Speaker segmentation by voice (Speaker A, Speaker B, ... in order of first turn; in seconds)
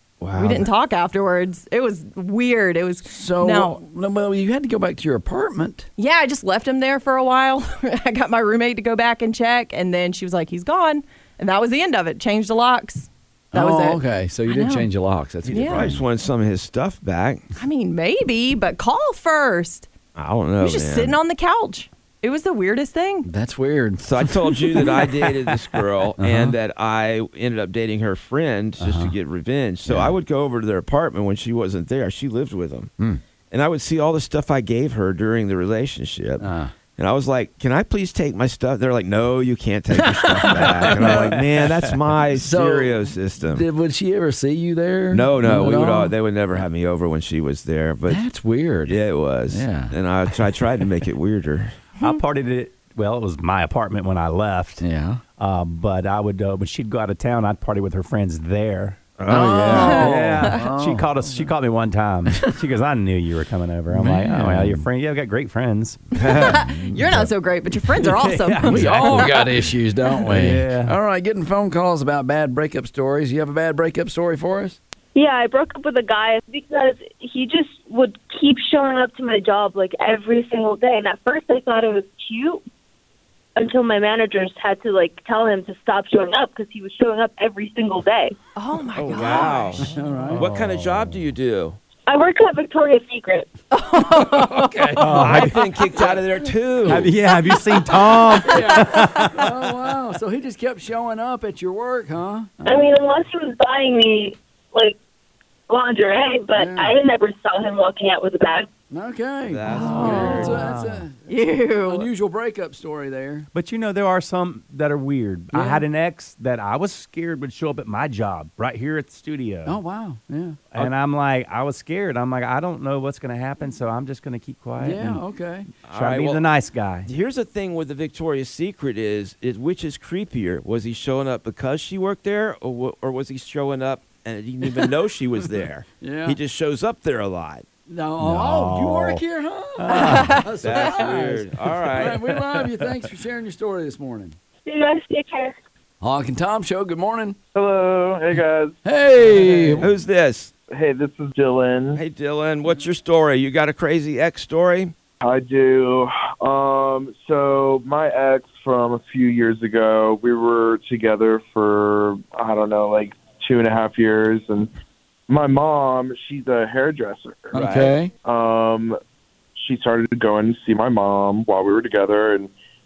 Speaker A: 0.2-0.7, 15.5-17.4, 20.1-21.2, 24.0-32.9, 33.5-43.6, 45.1-48.2, 48.9-51.8, 59.2-60.1, 89.0-91.8, 95.1-97.1, 109.5-110.6, 125.9-126.5, 127.0-137.7, 140.6-142.3, 149.8-150.5, 151.9-154.9, 167.6-167.9
Speaker B: 0.4-3.8, 6.0-14.9, 15.5-15.9, 17.6-19.9, 20.6-23.3, 59.3-59.9, 66.2-69.4, 88.5-90.1, 93.7-94.9, 109.7-110.6, 111.3-112.1, 139.9-140.4
Speaker C: 3.1-5.9, 13.5-16.0, 23.2-24.1, 26.2-26.5, 28.8-29.1, 29.9-30.1, 36.4-36.7, 40.0-41.4, 42.4-46.1, 48.1-49.0, 49.5-50.5, 54.8-55.2, 59.3-61.5, 63.9-64.8, 68.7-74.8, 89.8-90.4, 94.0-95.5, 98.4-102.6, 106.6-107.0, 108.9-111.2, 111.8-113.5, 115.5-115.8, 119.7-120.6, 124.8-125.7, 136.0-136.4, 137.9-144.3, 146.0-147.4, 148.8-149.9, 167.5-168.1
Speaker D: 52.0-54.8, 55.4-67.3, 67.8-69.5, 70.2-71.0, 90.3-91.3, 95.0-95.6, 96.9-99.4, 110.3-111.1, 113.5-119.8, 120.7-125.2, 125.8-127.1, 138.2-139.2, 139.8-140.5, 142.5-142.8, 149.3-149.8
Speaker E: 75.1-82.6, 83.5-88.4, 92.1-93.5, 102.6-105.0, 105.7-108.7, 144.7-145.5
Speaker F: 147.5-148.8, 150.7-152.0, 155.2-164.7, 165.3-167.6, 168.2-169.0, 169.6-172.5